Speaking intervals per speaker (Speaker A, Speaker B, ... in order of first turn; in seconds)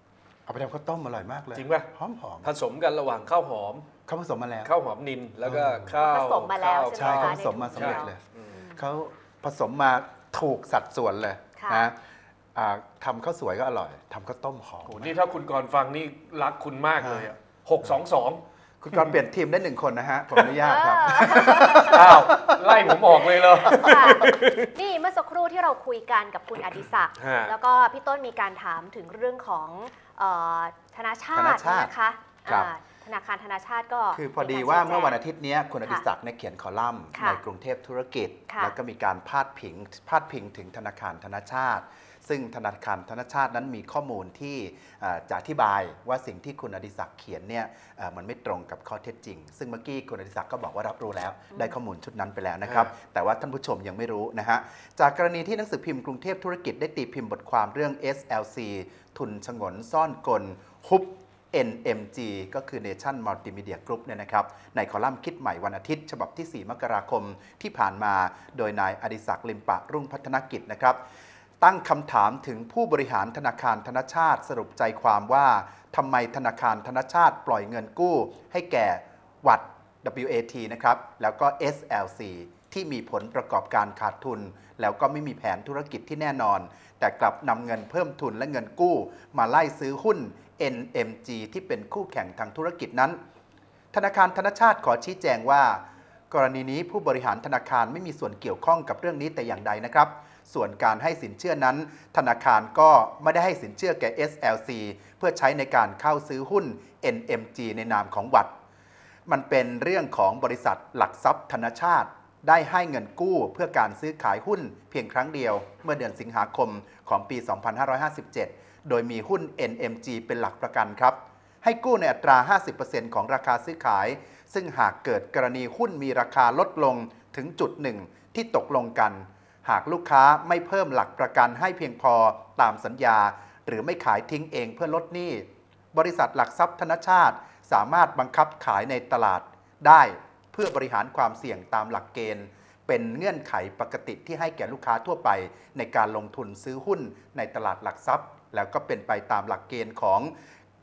Speaker A: 0.5-2.5, 4.1-4.7, 5.4-6.0, 6.9-8.2, 8.8-12.0, 12.5-15.2, 17.0-17.3, 18.8-24.1, 31.4-31.9, 34.1-71.0, 71.6-93.2, 93.9-108.5, 109.3-150.3
Speaker B: 1.6-1.9, 2.4-3.9, 4.6-8.6, 14.9-18.4, 21.8-24.7, 27.2-27.5, 52.7-52.9
Speaker C: 5.9-8.8, 11.6-11.9, 20.6-22.2, 23.7-35.2, 37.1-37.4, 38.5-38.7